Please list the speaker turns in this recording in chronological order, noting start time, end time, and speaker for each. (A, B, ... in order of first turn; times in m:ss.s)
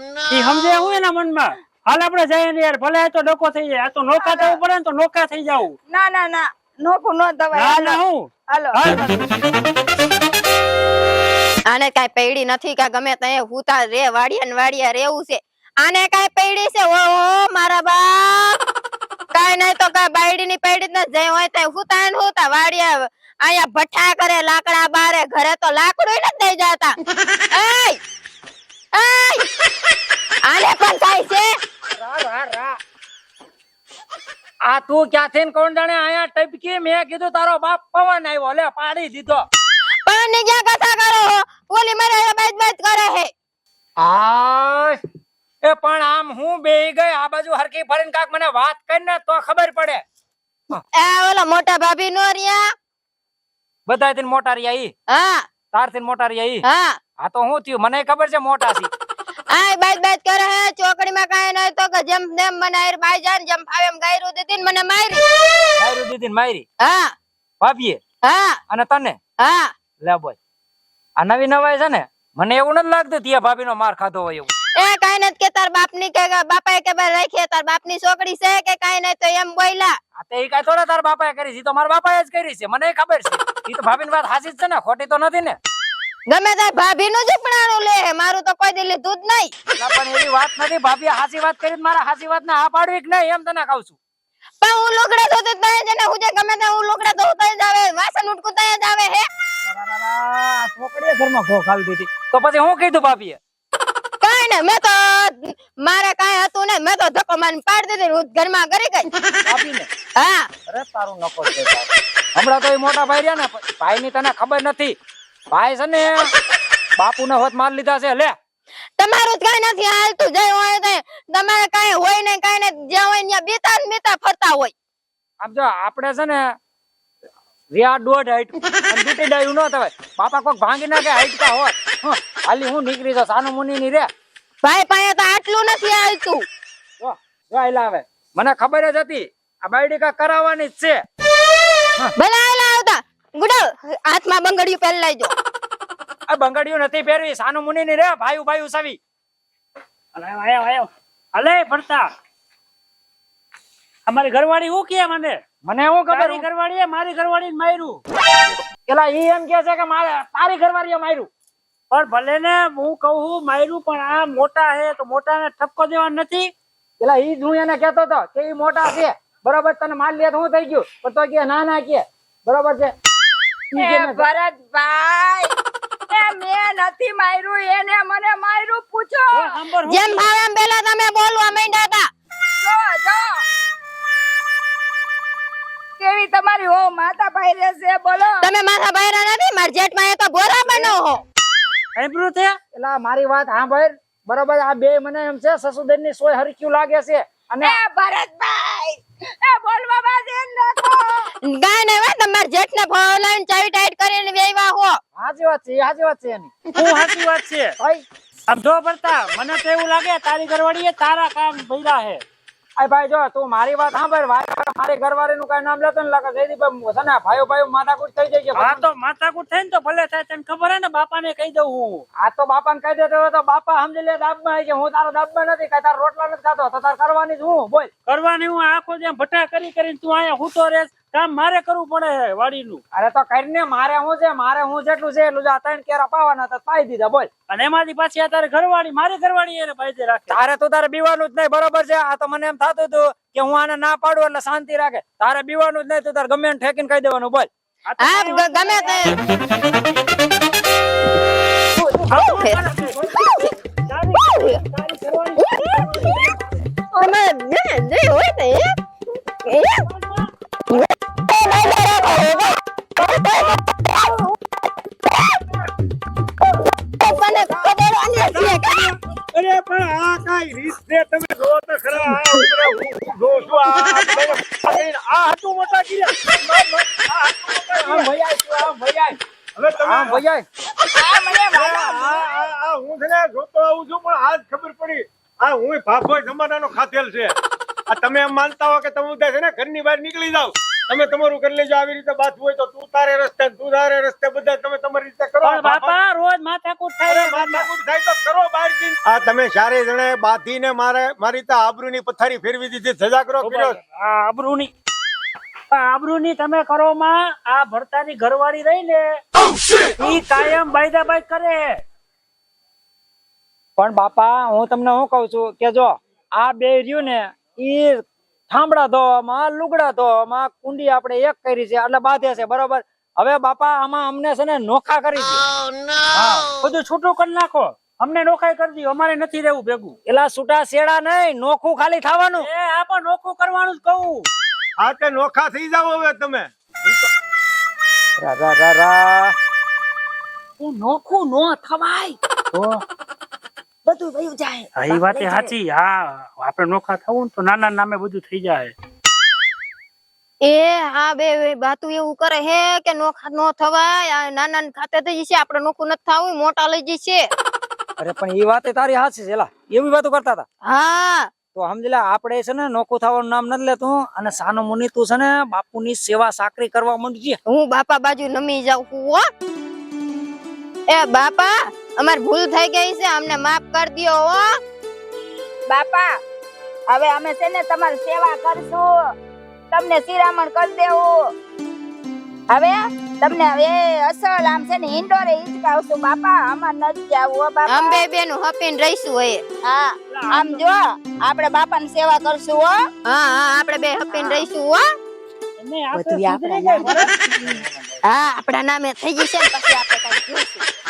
0:00.3-0:05.8 A
0:04.2-0:04.6 B
0:05.9-0:08.8 B
0:07.5-0:09.5 A
0:11.7-0:18.6 C
0:19.3-0:27.0 C
0:27.5-0:28.0 C
0:28.9-0:29.5 C
0:30.4-0:31.5 C
0:32.0-0:32.8 D
0:34.7-0:39.5 D
0:40.1-0:43.3 C
0:44.0-0:45.0 D
0:45.6-0:50.0 D
0:50.9-0:52.7 C
0:53.9-0:54.9 D
0:55.1-0:55.5 C
0:55.7-0:56.6 D
0:56.6-0:57.0 C
0:57.2-0:58.9 D
0:59.5-1:05.2 C
1:05.8-1:06.6 D
1:06.8-1:07.1 C
1:07.6-1:08.0 D
1:08.2-1:08.6 C
1:08.7-1:09.2 D
1:09.4-1:09.7 C
1:10.0-1:10.4 D
1:11.2-1:14.5 D
1:14.8-1:20.0 C
1:20.2-1:25.6 D
1:26.3-1:29.5 C
1:29.8-1:34.0 D
1:34.6-1:39.3 C
1:39.6-1:43.4 D
1:44.2-1:49.1 C
1:49.4-1:49.9 D
1:50.2-1:50.5 C
1:50.7-1:55.0 D
1:55.5-1:56.3 D
1:57.0-1:58.4 D
1:59.0-2:04.7 C
2:05.4-2:06.6 D
2:07.7-2:14.1 D
2:14.6-2:16.4 C
2:17.0-2:21.0 D
2:22.2-2:25.3 C
2:26.3-2:29.0 D
2:30.2-2:32.1 A
2:34.1-2:35.4 A
2:35.6-2:36.4 D
2:36.1-2:38.0 A
2:38.9-2:41.3 D
2:41.9-2:46.5 A
2:47.0-2:52.9 D
2:53.7-2:55.5 B
2:53.8-2:54.2 D
2:56.1-2:59.6 B
2:59.3-3:00.3 A
2:59.9-3:02.1 C
3:02.6-3:03.3 B
3:06.0-3:08.5 B
3:08.4-3:11.2 C
3:12.0-3:12.6 A
3:12.8-3:17.8 D
3:17.6-3:21.3 B
3:21.4-3:25.0 C
3:25.2-3:26.5 D
3:26.8-3:27.8 A
3:28.5-3:32.2 A
3:32.8-3:38.8 D
3:38.6-3:42.0 A
3:42.2-3:47.9 D
3:48.1-3:52.8 A
3:52.9-3:57.3 D
3:57.5-4:00.4 A
4:00.3-4:07.5 D
4:07.9-4:10.3 A
4:08.0-4:09.2 C
4:11.8-4:13.5 C
4:11.9-4:16.4 A
4:14.2-4:14.6 C
4:15.4-4:16.3 C
4:16.9-4:18.7 C
4:19.4-4:19.9 C
4:19.9-4:20.3 A
4:20.7-4:24.3 C
4:27.0-4:28.9 C
4:28.2-4:38.1 E
4:37.7-4:39.2 D
4:39.6-4:40.2 E
4:39.8-4:40.4 D
4:40.9-4:42.3 B
4:41.5-4:47.3 E
4:47.9-4:56.0 E
4:55.4-4:57.7 A
4:57.1-5:03.8 E
5:03.4-5:04.7 A
5:05.7-5:09.2 A
5:10.0-5:11.8 A
5:13.8-5:25.4 D
5:26.1-5:26.5 D
5:26.6-5:30.0 A
5:30.1-5:32.5 D
5:32.4-5:34.3 A
5:34.8-5:37.1 E
5:38.2-5:39.4 D
5:40.6-5:42.2 D
5:43.9-5:44.3 D
5:44.8-5:48.7 A
5:50.4-5:57.3 C
5:58.0-6:00.5 D
6:00.6-6:01.3 C
6:01.5-6:07.4 D
6:07.5-6:09.2 C
6:10.9-6:14.5 C
6:15.7-6:16.1 B
6:16.9-6:18.9 B
6:19.7-6:21.1 B
6:22.5-6:28.0 B
6:27.7-6:29.4 C
6:29.6-6:32.8 B
6:30.1-6:30.6 A
6:33.1-6:34.8 C
6:34.1-6:34.5 B
6:35.6-6:37.7 A
6:36.0-6:37.0 B
6:38.0-6:40.6 C